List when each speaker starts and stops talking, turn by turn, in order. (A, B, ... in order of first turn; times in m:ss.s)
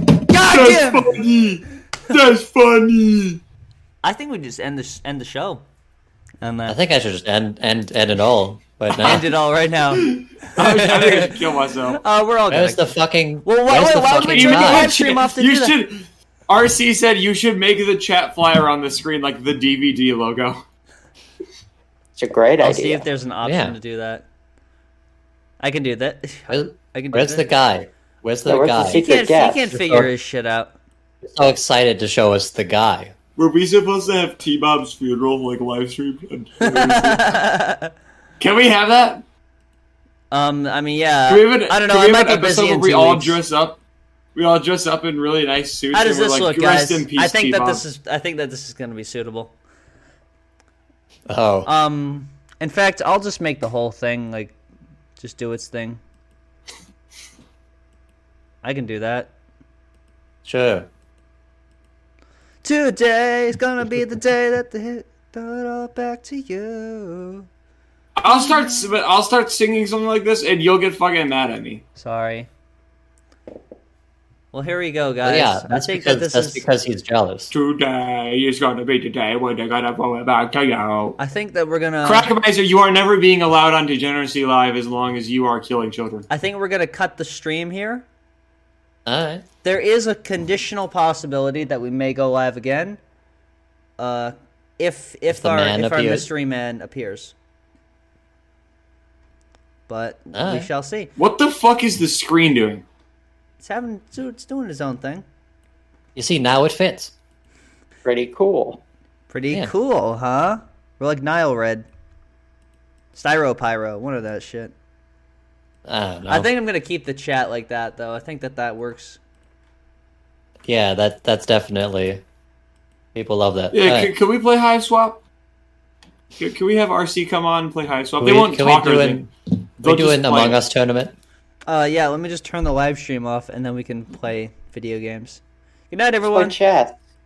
0:00.3-0:01.2 A
0:00.4-0:03.4 B
0:04.0-0:05.6 A
0:06.4-0:06.8 A
0:06.7-0:09.3 C
0:09.0-0:11.3 A
0:10.0-0:12.0 B
0:12.0-0:12.9 A
0:12.5-0:14.9 C
0:13.4-0:15.8 A
0:14.3-0:20.6 B
0:22.2-0:23.1 D
0:22.6-0:24.2 A
0:23.4-0:23.8 C
0:25.6-0:27.5 A
0:26.5-0:29.0 C
0:28.4-0:29.7 D
0:28.9-0:30.7 A
0:29.7-0:30.1 C
0:31.2-0:33.1 C
0:33.4-0:37.4 B
0:36.6-0:37.9 A
0:38.4-0:39.2 B
0:40.3-0:43.4 A
0:41.3-0:43.8 B
0:44.3-0:47.8 B
0:45.9-0:49.5 A
0:51.3-0:51.7 C
0:51.6-0:54.6 A
0:55.2-0:56.0 A
0:58.6-0:59.3 A
1:00.4-1:00.9 C
1:02.6-1:07.4 A
1:08.2-1:11.8 B
1:12.0-1:12.5 A
1:14.5-1:16.6 A
1:15.2-1:17.5 C
1:17.5-1:21.2 B
1:21.2-1:22.3 A
1:22.0-1:26.3 B
1:26.3-1:28.0 A
1:29.0-1:29.4 C
1:29.6-1:33.0 A
1:34.0-1:37.3 A
1:35.3-1:36.3 C
1:39.9-1:41.1 A
1:40.3-1:40.7 C
1:41.2-1:42.8 B
1:43.6-1:45.2 A
1:46.1-1:47.1 C
1:48.0-1:48.8 D
1:49.3-1:51.8 A
1:53.1-1:54.7 A
1:55.8-1:56.5 C
1:56.3-1:59.2 A
2:00.7-2:02.2 C
2:03.1-2:04.1 C
2:03.7-2:05.2 B
2:06.4-2:09.3 B
2:08.2-2:09.3 C
2:09.8-2:10.6 B
2:09.8-2:11.1 C
2:11.7-2:16.6 A
2:16.3-2:16.9 D